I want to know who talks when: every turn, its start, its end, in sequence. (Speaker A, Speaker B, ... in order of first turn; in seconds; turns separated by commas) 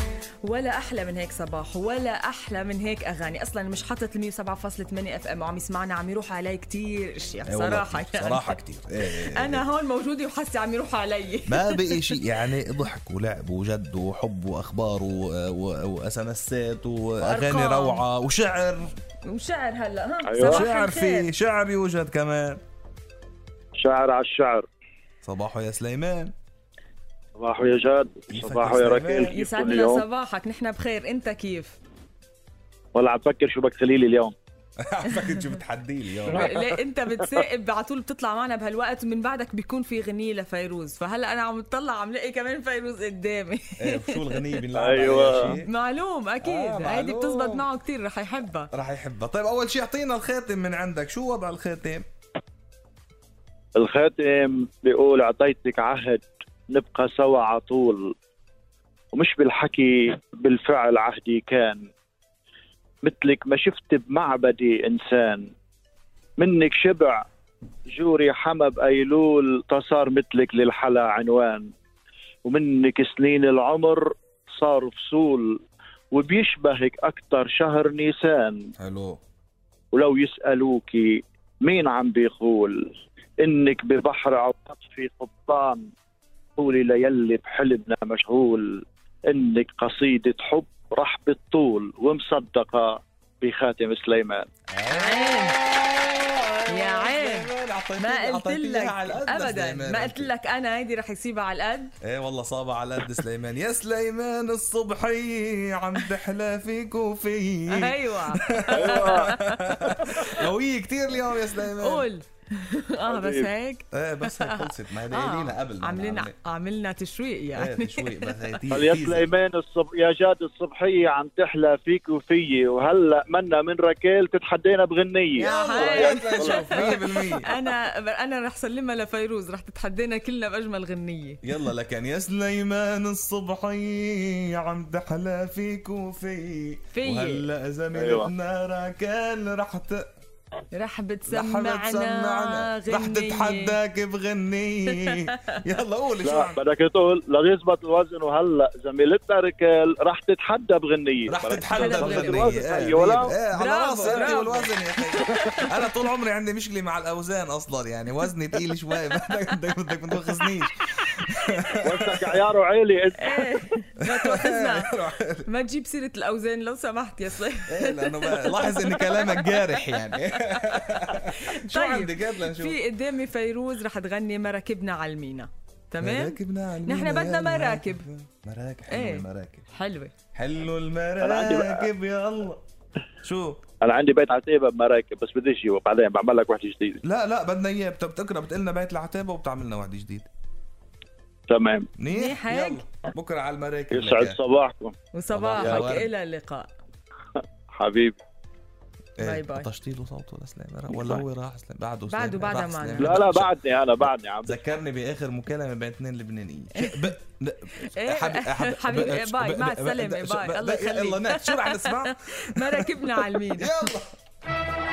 Speaker A: 0.4-8.6, Speaker B: 7.5-9.7, Speaker A: 9.1-12.2, Speaker B: 11.5-18.9, Speaker A: 17.2-18.0, Speaker A: 19.2-21.3, Speaker C: 20.3-20.7, Speaker B: 20.4-22.6, Speaker C: 23.8-24.7, Speaker B: 25.2-26.3, Speaker C: 27.4-30.1, Speaker B: 28.3-29.4, Speaker A: 29.2-31.8, Speaker C: 32.9-34.3, Speaker B: 34.8-36.5, Speaker A: 35.1-35.5, Speaker C: 36.3-36.7, Speaker A: 36.3-44.6, Speaker B: 43.8-45.7, Speaker C: 44.8-45.5, Speaker A: 45.4-48.7, Speaker B: 46.4-47.7, Speaker B: 48.7-52.1, Speaker C: 53.8-58.1, Speaker C: 59.1-61.9, Speaker C: 63.0-65.5, Speaker C: 66.4-67.2, Speaker C: 67.9-71.7, Speaker C: 72.5-75.6, Speaker C: 76.1-78.7, Speaker B: 78.8-79.2, Speaker C: 79.9-85.8, Speaker C: 86.6-94.5, Speaker B: 94.7-100.3, Speaker A: 94.9-95.6, Speaker A: 96.7-102.0, Speaker B: 102.0-112.1, Speaker A: 107.7-110.5, Speaker C: 108.7-109.3, Speaker C: 109.8-110.1, Speaker A: 111.6-118.6, Speaker C: 113.1-113.5, Speaker B: 113.9-116.3, Speaker B: 117.5-119.3, Speaker C: 118.7-126.9, Speaker B: 125.4-127.5, Speaker A: 125.4-131.4, Speaker B: 131.4-140.1, Speaker A: 136.9-137.5, Speaker C: 137.9-138.3, Speaker A: 140.7-143.8, Speaker B: 141.3-146.6, Speaker A: 144.9-145.6, Speaker C: 146.2-153.3, Speaker B: 151.3-162.4, Speaker A: 151.7-152.6, Speaker A: 153.5-155.8, Speaker C: 153.9-154.5, Speaker A: 160.2-160.6, Speaker C: 161.8-163.5, Speaker A: 163.2-178.1, Speaker B: 164.0-165.5, Speaker B: 167.7-172.8, Speaker B: 176.0-179.7, Speaker A: 178.9-180.1, Speaker B: 180.3-182.6, Speaker C: 181.2-181.9, Speaker B: 183.2-183.6, Speaker C: 183.8-187.0, Speaker B: 187.0-190.3, Speaker C: 191.5-191.9, Speaker B: 192.0-194.4, Speaker A: 192.1-192.9, Speaker C: 193.9-194.9, Speaker A: 195.1-196.7, Speaker B: 195.3-196.1, Speaker C: 195.6-195.9, Speaker C: 197.4-198.2, Speaker B: 199.2-203.5, Speaker A: 199.2-199.7, Speaker C: 200.9-201.2, Speaker A: 202.1-203.2, Speaker C: 203.0-204.6, Speaker B: 204.4-214.1, Speaker A: 206.8-207.1, Speaker A: 207.8-213.9